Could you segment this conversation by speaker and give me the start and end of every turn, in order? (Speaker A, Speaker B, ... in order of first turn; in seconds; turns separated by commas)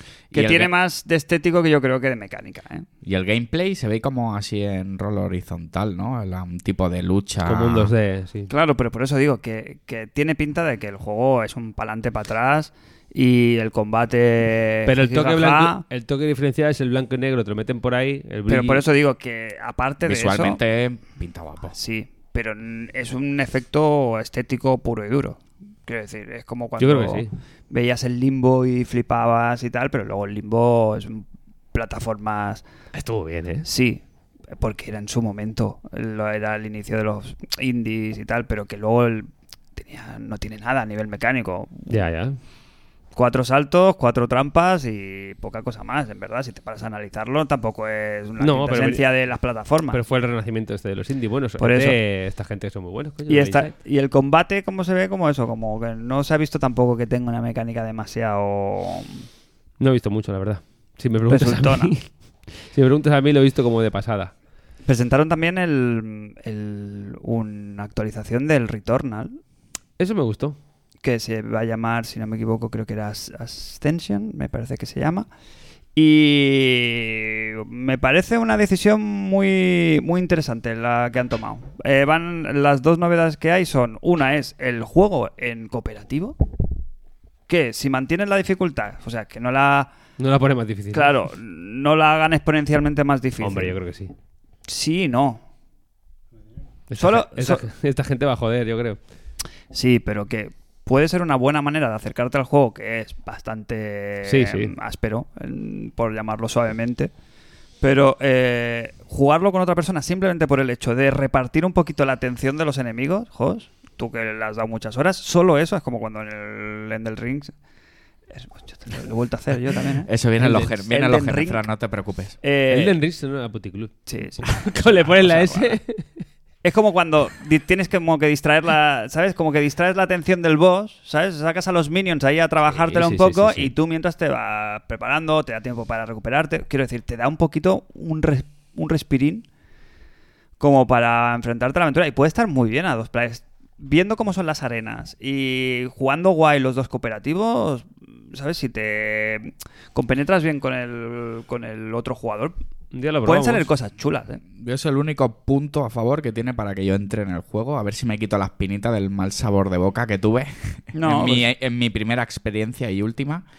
Speaker A: 0.3-0.7, Speaker B: 0.3-2.9, Speaker A: 3.0-7.9, Speaker C: 7.5-8.5, Speaker B: 8.5-15.8, Speaker C: 14.9-18.9, Speaker B: 18.5-20.6, Speaker A: 20.0-21.8, Speaker B: 21.7-32.6, Speaker C: 26.8-27.3, Speaker C: 32.9-33.7, Speaker B: 33.6-34.0, Speaker B: 34.6-42.0, Speaker C: 41.9-42.4, Speaker B: 43.1-50.0, Speaker C: 48.4-49.1, Speaker C: 49.9-53.7, Speaker B: 51.6-52.0, Speaker B: 53.3-59.3, Speaker C: 59.8-64.3, Speaker B: 61.3-62.0, Speaker B: 64.9-69.4, Speaker C: 70.0-70.6, Speaker B: 71.0-75.3, Speaker B: 76.0-86.4, Speaker B: 87.5-89.9, Speaker C: 90.2-91.1, Speaker B: 90.9-93.8, Speaker C: 93.4-94.1, Speaker B: 94.7-95.4, Speaker C: 96.9-99.0, Speaker B: 97.0-97.7, Speaker B: 99.7-107.1, Speaker C: 104.3-104.7, Speaker B: 107.8-117.5, Speaker B: 118.3-120.1, Speaker A: 120.0-122.4, Speaker C: 120.4-120.7, Speaker B: 120.8-121.7, Speaker B: 122.4-123.0, Speaker C: 122.7-126.3, Speaker B: 124.1-125.8, Speaker B: 126.6-139.5, Speaker C: 132.7-133.7, Speaker B: 140.6-152.6, Speaker C: 152.9-153.7, Speaker B: 153.2-154.4, Speaker A: 154.6-163.4, Speaker B: 160.9-161.5